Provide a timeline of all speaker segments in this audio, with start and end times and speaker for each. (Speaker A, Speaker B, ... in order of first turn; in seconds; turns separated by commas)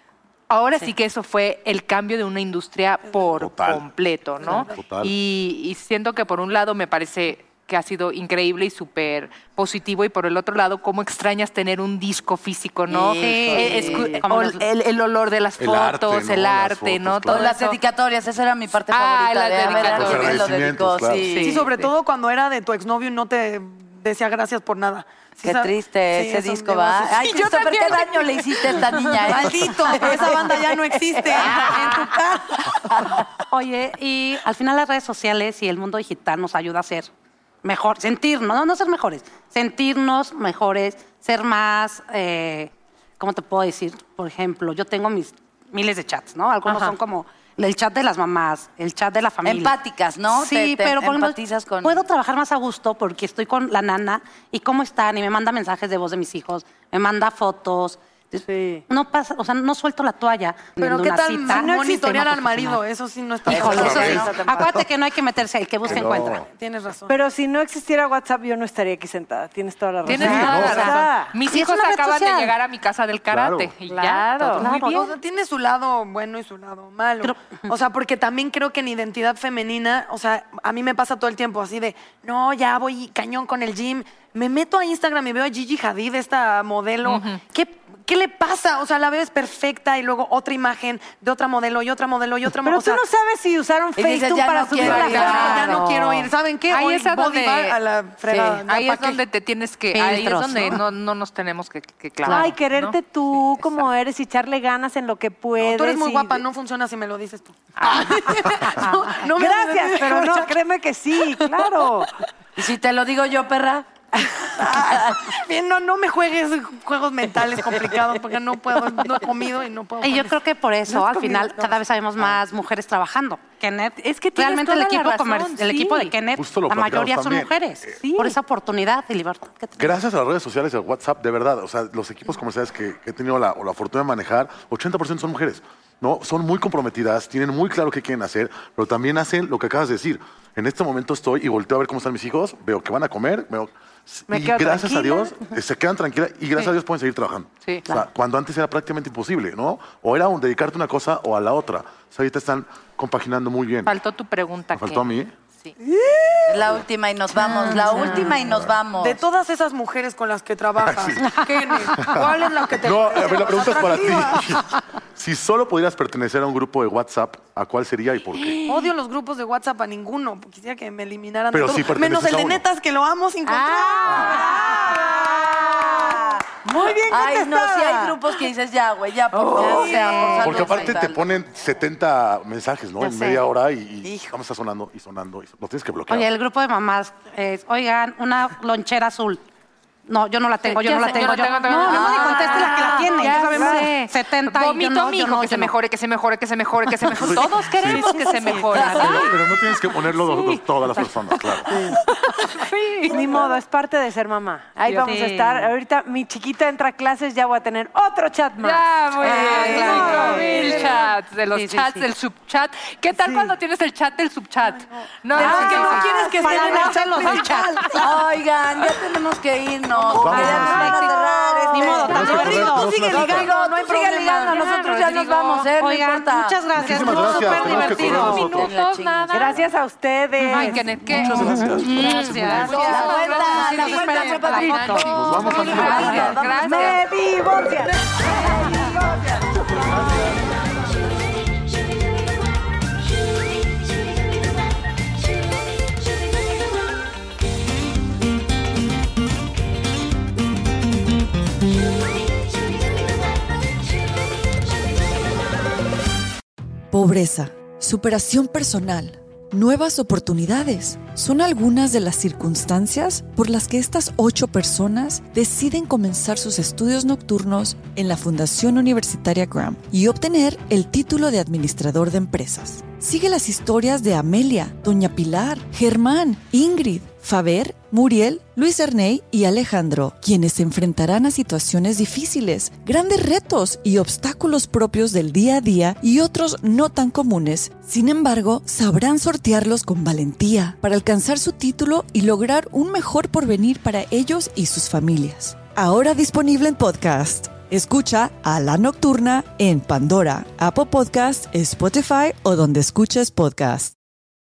Speaker A: 0.5-17.8, Speaker B: 3.4-3.9, Speaker C: 4.4-4.7, Speaker B: 4.5-5.1, Speaker D: 12.9-14.2, Speaker E: 13.2-14.6, Speaker B: 15.6-17.5, Speaker D: 17.3-21.6, Speaker A: 18.9-20.5, Speaker B: 19.8-21.4, Speaker A: 21.3-21.9, Speaker C: 21.4-27.3, Speaker D: 25.4-30.7, Speaker A: 27.1-30.1, Speaker C: 29.2-32.6, Speaker A: 31.5-31.8, Speaker D: 31.5-32.0, Speaker E: 33.5-37.1, Speaker E: 37.6-49.7, Speaker A: 46.6-46.9, Speaker D: 49.4-52.0, Speaker E: 50.3-62.8, Speaker F: 58.4-58.8, Speaker C: 60.8-64.4, Speaker D: 63.5-64.4, Speaker B: 63.5-64.9, Speaker E: 64.5-66.4, Speaker B: 65.8-66.5, Speaker C: 65.9-67.1, Speaker F: 67.1-71.3, Speaker A: 70.0-75.1, Speaker B: 70.1-70.9, Speaker E: 70.3-72.5, Speaker B: 73.3-73.7, Speaker F: 73.9-74.6, Speaker E: 74.5-75.1, Speaker C: 74.6-93.0, Speaker E: 77.2-77.7, Speaker A: 87.0-87.4, Speaker F: 92.5-96.2, Speaker D: 94.0-95.8, Speaker C: 94.8-99.2, Speaker A: 95.1-95.7, Speaker E: 95.6-96.3, Speaker A: 96.7-97.8, Speaker D: 98.2-98.6, Speaker A: 98.6-103.5, Speaker E: 100.0-100.8, Speaker E: 102.2-102.5, Speaker F: 102.3-106.4, Speaker C: 105.6-110.5, Speaker A: 107.8-108.3, Speaker F: 108.2-112.1, Speaker C: 111.2-111.8, Speaker D: 112.5-113.9, Speaker C: 114.2-120.4, Speaker D: 114.6-115.3, Speaker E: 120.0-129.9, Speaker C: 121.1-121.7, Speaker A: 124.0-126.1, Speaker B: 126.4-127.9, Speaker A: 128.0-128.4, Speaker B: 129.8-153.9, Speaker F: 144.3-145.5, Speaker A: 153.9-155.1, Speaker B: 154.7-155.3, Speaker D: 156.4-159.2, Speaker B: 156.6-156.8, Speaker A: 157.6-158.3, Speaker B: 158.4-158.8, Speaker C: 158.9-164.6, Speaker B: 160.8-168.7, Speaker C: 168.7-174.4, Speaker B: 171.5-172.6, Speaker F: 173.5-178.2, Speaker D: 174.1-176.4, Speaker D: 177.1-181.4, Speaker F: 179.4-180.3, Speaker E: 179.6-180.4, Speaker B: 180.4-186.3, Speaker E: 183.0-183.4, Speaker D: 184.0-184.3, Speaker E: 186.1-189.4, Speaker E: 190.1-195.7, Speaker A: 190.6-199.4, Speaker F: 191.7-193.9, Speaker D: 191.8-193.4, Speaker B: 197.1-198.1, Speaker F: 198.0-199.1, Speaker B: 198.7-201.7, Speaker F: 201.7-202.0, Speaker A: 201.7-203.4, Speaker F: 203.1-211.0, Speaker A: 204.9-205.2, Speaker E: 205.0-205.6, Speaker A: 208.6-216.1, Speaker D: 209.2-210.8, Speaker E: 210.0-210.9, Speaker E: 211.5-212.1, Speaker F: 213.1-213.5, Speaker C: 214.7-218.2, Speaker F: 215.4-217.5, Speaker E: 215.4-218.0, Speaker D: 215.9-216.9, Speaker D: 217.9-226.6, Speaker C: 220.0-220.4, Speaker B: 220.1-220.9, Speaker E: 220.3-223.2, Speaker F: 220.4-222.2, Speaker C: 221.9-224.7, Speaker B: 222.1-223.5, Speaker E: 224.4-228.0, Speaker B: 226.7-228.7, Speaker F: 226.8-228.3, Speaker D: 227.4-229.6, Speaker A: 227.7-229.6, Speaker F: 229.3-230.8, Speaker A: 230.5-237.0, Speaker B: 231.0-232.5, Speaker D: 231.2-237.0, Speaker E: 231.3-236.4, Speaker F: 232.4-232.9, Speaker B: 235.0-236.4, Speaker F: 235.7-237.9, Speaker D: 238.3-239.3, Speaker G: 256.9-303.9